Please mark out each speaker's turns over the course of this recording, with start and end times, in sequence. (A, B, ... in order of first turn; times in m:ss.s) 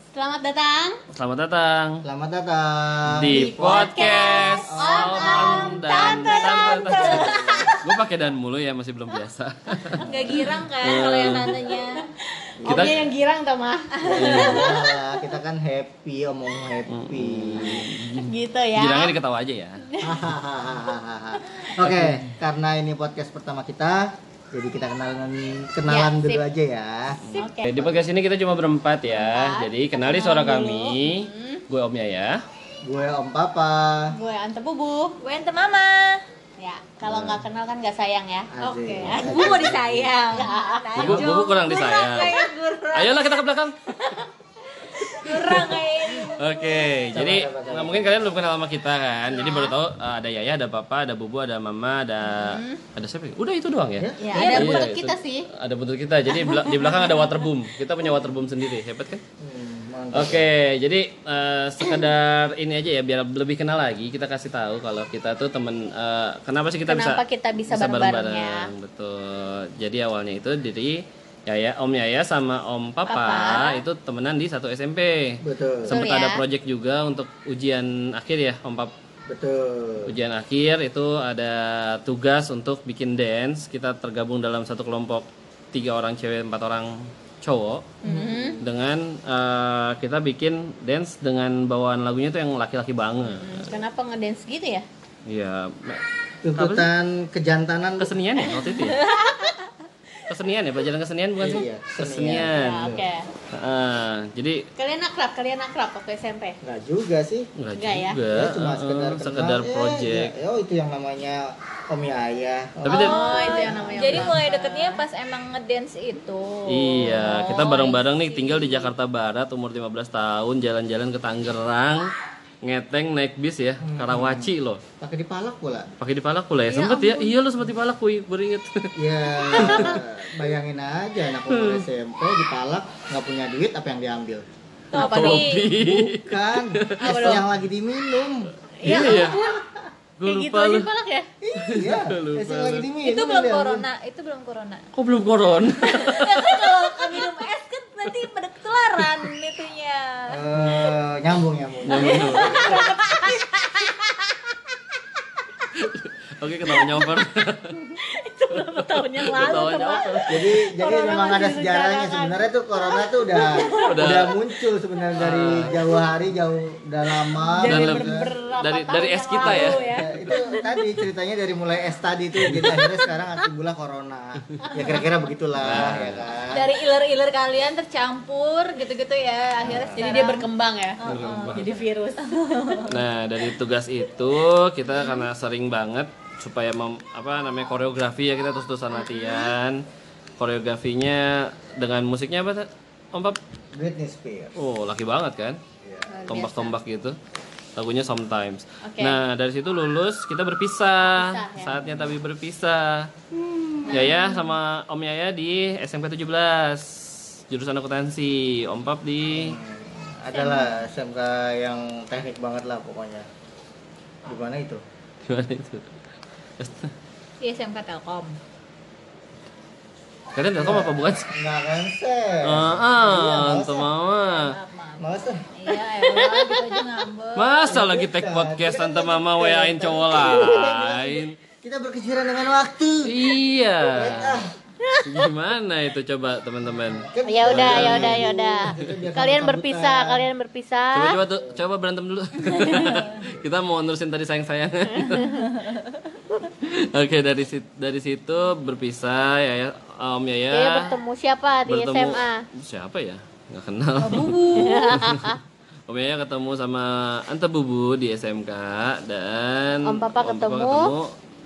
0:00.1-0:01.0 A
0:01.1-0:02.0 B
0:02.0-0:06.2 C
0:03.1-0:11.7 B
0:03.3-0:07.8 A
0:06.2-0:07.9 D
0:10.0-0:12.1 D
0:10.2-0:10.5 A
0:11.7-0:14.8 A
0:12.6-0:13.0 C
0:12.7-0:13.0 B
0:14.0-0:14.6 D
0:14.1-0:14.7 B
0:14.1-0:17.9 C
0:16.9-0:19.9 B
0:18.1-0:19.2 A
0:19.9-0:20.3 A
0:20.0-0:27.2 C
0:21.4-0:21.7 A
0:21.9-0:22.2 B
0:25.9-0:26.5 A
0:27.2-0:32.4 B
0:27.3-0:27.9 A
0:29.1-0:31.6 A
0:32.8-0:34.2 C
0:34.1-0:35.2 A
0:35.2-0:36.2 D
0:36.6-0:39.5 A
0:37.1-0:37.4 B
0:38.5-0:40.3 C
0:39.1-0:43.1 D
0:40.3-0:43.0 A
0:41.0-0:42.4 B
0:42.9-0:43.8 B
0:45.0-0:46.4 D
0:45.4-0:59.2 B
0:47.1-0:48.2 C
0:49.4-0:49.7 A
0:52.3-0:52.8 A
0:54.0-0:54.4 C
0:54.2-0:55.5 A
0:56.3-0:57.2 A
0:59.4-1:00.4 C
1:00.1-1:18.9 B
1:06.9-1:08.7 A
1:13.1-1:13.8 A
1:15.4-1:16.0 C
1:15.9-1:16.4 A
1:19.3-1:20.1 C
1:20.0-1:27.9 B
1:28.0-1:28.6 A
1:28.1-1:28.6 C
1:28.6-1:33.8 B
1:33.2-1:34.9 A
1:35.3-1:36.0 B
1:36.4-1:38.1 C
1:36.6-1:36.9 B
1:38.0-1:39.0 B
1:38.6-1:39.6 A
1:40.3-1:43.0 B
1:41.4-1:43.1 C
1:42.5-1:43.3 A
1:43.5-1:44.6 B
1:44.8-1:46.6 A
1:46.6-1:47.5 C
1:47.6-1:50.3 B
1:47.8-1:48.2 A
1:48.3-1:54.3 C
1:52.9-1:53.3 B
1:52.9-1:55.0 A
1:52.9-1:58.9 D
1:56.7-2:02.1 B
2:02.6-2:04.8 B
2:03.8-2:04.5 C
2:05.0-2:05.9 C
2:06.0-2:10.0 B
2:06.7-2:07.3 D
2:09.0-2:14.4 C
2:09.5-2:10.0 A
2:11.5-2:11.9 B
2:14.9-2:15.7 D
2:14.9-2:15.4 A
2:14.9-2:17.5 B
2:15.8-2:18.5 C
2:17.0-2:17.4 A
2:18.8-2:19.6 A
2:18.8-2:19.4 B
2:20.2-2:20.9 B
2:20.2-2:21.3 A
2:21.4-2:23.9 C
2:21.6-2:22.9 B
2:23.0-2:24.8 D
2:25.0-2:27.0 B
2:25.8-2:30.4 D
2:30.3-2:32.8 C
2:31.9-2:32.8 B
2:31.9-2:34.3 A
2:35.8-2:37.9 B
2:36.7-2:37.1 A
2:37.9-2:43.9 A
2:38.5-2:40.5 B
2:40.3-2:48.3 C
2:43.8-2:44.4 B
2:45.2-2:45.8 B
2:45.8-2:46.0 A
2:47.3-2:50.9 A
2:47.6-2:49.9 B
2:49.4-2:56.7 C
2:52.5-2:53.1 A
2:54.6-2:55.0 A
2:55.6-2:56.3 B
2:56.5-3:00.5 D
2:59.6-3:00.0 C
2:59.9-3:01.0 A
3:01.0-3:03.0 D
3:01.0-3:01.6 B
3:01.5-3:02.5 A
3:02.9-3:09.8 B
3:04.9-3:05.3 D
3:09.1-3:09.4 D
3:10.4-3:13.4 B
3:13.7-3:14.6 C
3:14.6-3:15.6 B
3:15.8-3:16.2 C
3:16.1-3:16.8 A
3:16.3-3:17.2 B
3:17.8-3:23.1 B
3:18.8-3:19.2 A
3:21.1-3:22.1 A
3:23.4-3:23.8 C
3:23.8-3:24.4 A
3:23.9-3:29.6 B
3:29.3-3:33.3 C
3:30.3-3:30.7 D
3:34.3-3:34.8 C
3:35.3-3:35.9 B
3:36.6-3:36.9 B
3:37.4-3:38.4 D
3:40.3-3:41.4 B
3:40.6-3:43.9 C
3:42.4-3:44.5 B
3:44.3-3:47.7 D
3:45.0-3:45.4 C
3:45.8-3:47.0 A
3:47.4-3:51.4 B
3:47.7-3:53.3 C
3:53.0-3:54.4 B
3:53.8-3:54.5 C
3:55.0-3:58.3 B
3:57.0-4:00.3 C
3:57.2-4:01.2 A
4:00.9-4:05.7 B
4:02.7-4:03.0 A
4:06.6-4:11.0 B
4:10.5-4:12.4 A
4:11.6-4:21.1 B
4:14.0-4:15.1 D
4:14.6-4:15.4 A
4:19.8-4:20.9 A